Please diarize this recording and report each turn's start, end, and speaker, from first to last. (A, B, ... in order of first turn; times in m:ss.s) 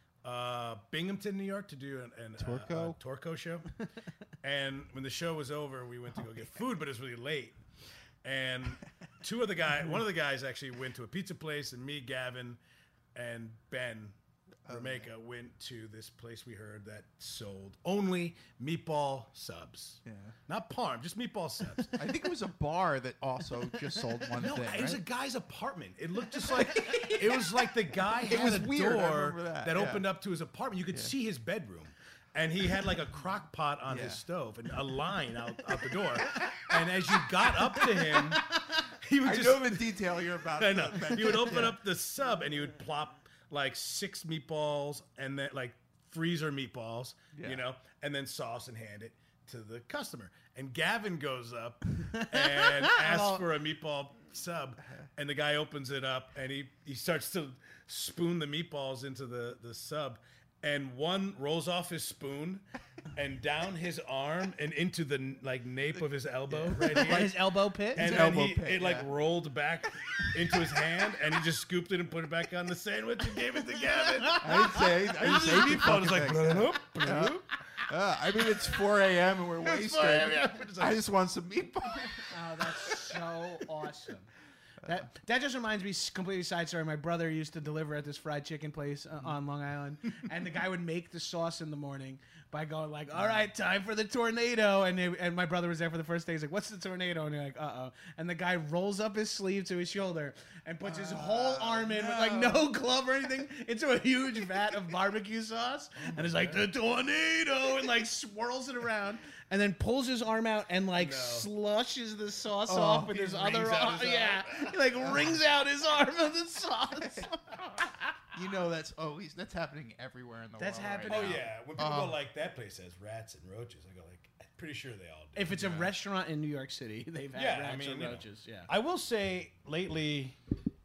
0:00.2-0:03.7 A
0:02.4-0:03.0 B
0:04.4-0:07.6 A
0:08.2-0:12.6 A
0:13.1-0:14.1 A
0:14.6-0:15.1 B
0:14.7-0:22.0 A
0:20.0-0:20.4 B
0:21.9-0:25.0 B
0:24.3-0:38.5 A
0:28.2-0:30.0 B
0:33.9-0:34.2 B
0:39.0-0:40.0 A
0:39.2-0:41.8 B
0:40.5-1:02.6 A
0:47.3-0:47.6 B
0:52.2-0:53.4 C
1:03.1-1:17.4 A
1:06.5-1:07.4 B
1:06.7-1:08.2 C
1:07.9-1:09.1 B
1:14.2-1:15.7 C
1:14.4-1:22.3 B
1:19.6-1:21.0 A
1:22.3-1:24.3 C
1:24.8-1:58.1 C
1:40.8-1:42.7 B
1:51.0-1:51.5 A
1:52.7-1:53.1 B
1:53.0-1:55.0 A
1:55.0-1:55.3 B
1:58.3-2:02.2 B
2:00.6-2:01.4 C
2:01.1-2:05.8 A
2:05.4-2:08.7 C
2:07.3-2:10.4 A